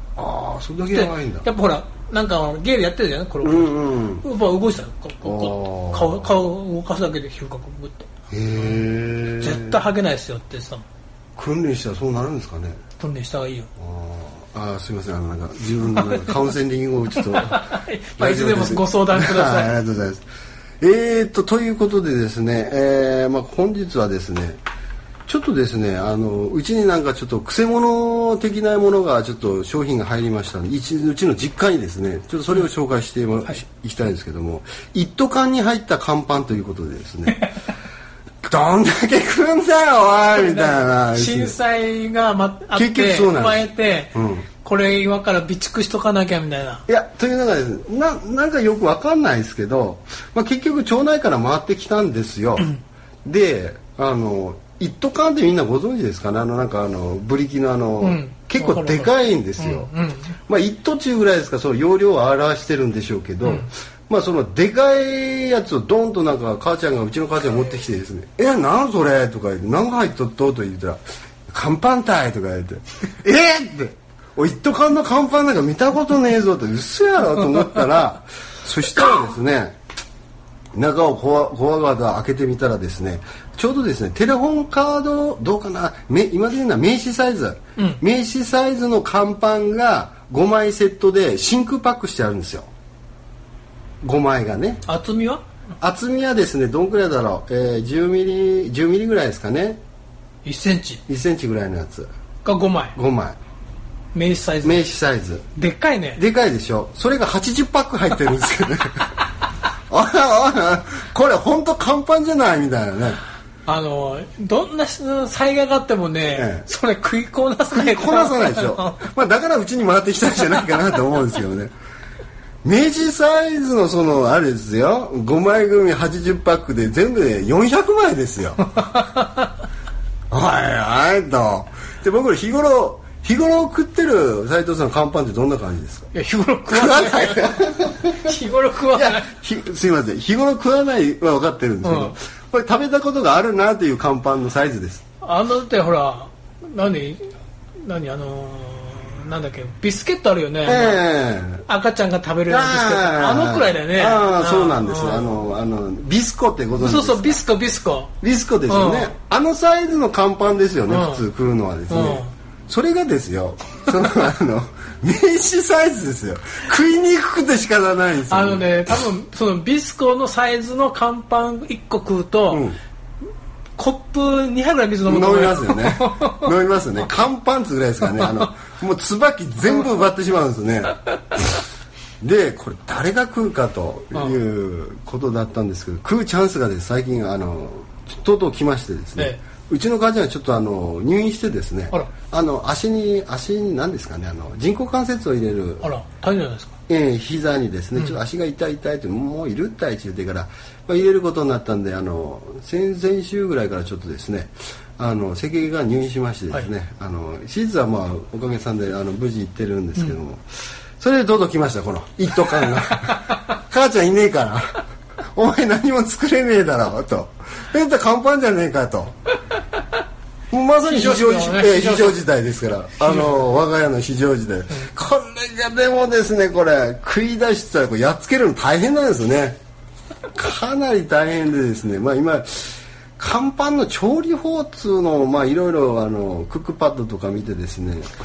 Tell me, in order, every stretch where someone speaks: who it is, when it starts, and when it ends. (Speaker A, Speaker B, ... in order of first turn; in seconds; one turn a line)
Speaker A: 0.1-1.5
Speaker B: 0.9-8.8
Speaker A: 3.4-4.2
Speaker A: 5.2-6.4
Speaker A: 8.3-9.8
Speaker B: 9.4-10.9
Speaker A: 11.4-12.8
Speaker B: 13.0-13.7
Speaker A: 13.8-17.6
Speaker B: 15.9-16.4
Speaker B: 17.2-19.8
Speaker A: 18.2-20.2
Speaker A: 20.8-24.6
Speaker A: 25.3-37.4
Speaker A: 38.4-41.6
Speaker B: 40.4-46.8
Speaker A: 42.7-44.5
Speaker A: 46.9-52.7
Speaker A: 53.2-59.9
Speaker B: 58.0-60.4
Speaker A: 60.5-79.8
Speaker B: 63.4-63.7
Speaker A: 80.7-92.7
Speaker B: 87.8-88.0
Speaker A: 94.0-94.8
Speaker B: 94.9-95.4
Speaker A: 95.8-99.8
Speaker B: 100.4-101.0
Speaker A: 101.1-102.1
Speaker B: 102.4-103.0
Speaker A: 102.9-103.4
Speaker B: 104.1-104.8
Speaker A: 104.6-105.5
Speaker B: 105.5-106.2
Speaker A: 106.2-109.2
Speaker A: 109.9-113.2
Speaker B: 113.6-119.0
Speaker A: 116.3-116.7
Speaker A: 117.7-121.7
Speaker A: 122.6-128.6
Speaker B: 128.8-129.3
Speaker A: 130.3-136.1
Speaker B: 136.1-139.3
Speaker A: 136.7-138.3
Speaker A: 138.9-145.0
Speaker B: 141.8-142.2
Speaker B: 145.2-151.0
Speaker A: 150.6-151.6
Speaker B: 151.7-155.4
Speaker A: 152.5-157.4
Speaker B: 156.8-158.1
Speaker A: 158.2-168.8
Speaker B: 158.7-159.1
Speaker B: 160.9-161.2
Speaker B: 161.9-162.3
Speaker B: 168.3-172.7
Speaker A: 172.5-172.8
Speaker B: 173.8-176.5
Speaker A: 175.1-181.0
Speaker A: 182.2-195.9
Speaker B: 184.1-184.4
Speaker B: 195.8-196.8
Speaker A: 196.9-210.4
Speaker A: 211.0-219.1
Speaker A: 220.5-229.6
Speaker B: 220.8-222.2
Speaker B: 223.0-223.4
Speaker A: 230.3-238.1